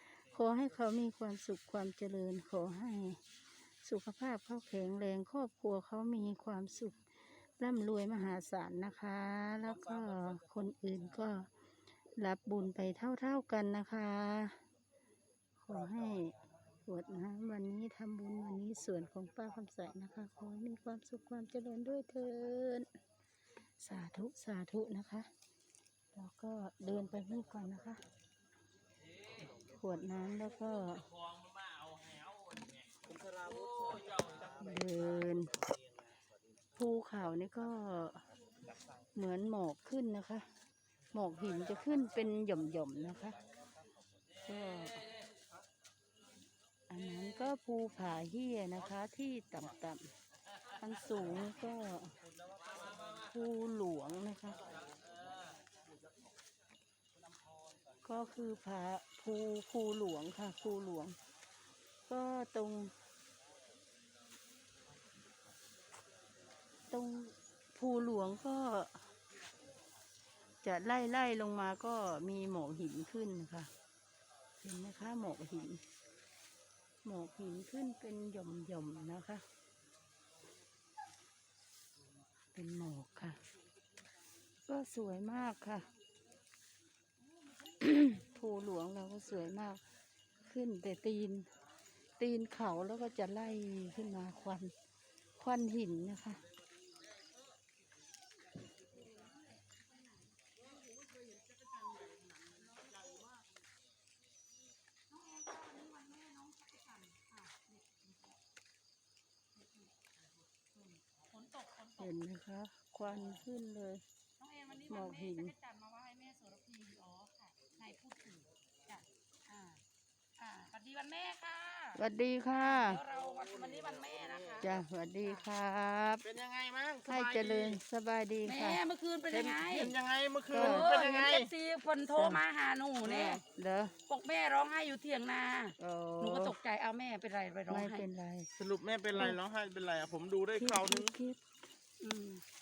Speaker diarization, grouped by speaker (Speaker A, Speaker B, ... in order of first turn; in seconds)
Speaker A: 0.2-3.2, 3.8-7.0, 7.6-11.5, 12.2-14.6, 15.6-16.3, 16.9-22.9, 23.8-25.3, 26.1-28.0, 29.4-31.1, 34.5-35.5, 36.8-38.2, 39.2-40.5, 41.1-43.4, 44.5-45.0, 46.9-50.1, 50.8-52.1, 53.3-54.6, 58.0-61.2, 62.1-62.9, 66.9-69.0, 70.6-73.7, 74.6-75.8, 77.0-79.4, 82.5-83.4, 84.7-85.9, 87.8-89.8, 90.5-91.5, 92.2-94.7, 95.4-96.4, 112.0-114.0, 114.9-115.5, 122.0-123.0, 124.6-126.3, 127.0-128.8, 130.5-130.9, 132.1-132.4, 133.0-133.9, 135.8-136.5, 137.7-138.5, 140.6-141.4
Speaker B: 105.1-108.4, 109.6-109.9, 110.8-112.1, 114.4-119.8, 120.4-122.0, 122.6-124.7, 128.4-130.0, 130.6-133.4, 134.1-138.1, 142.0-142.4
Speaker C: 126.3-127.8, 129.4-131.5, 138.6-141.1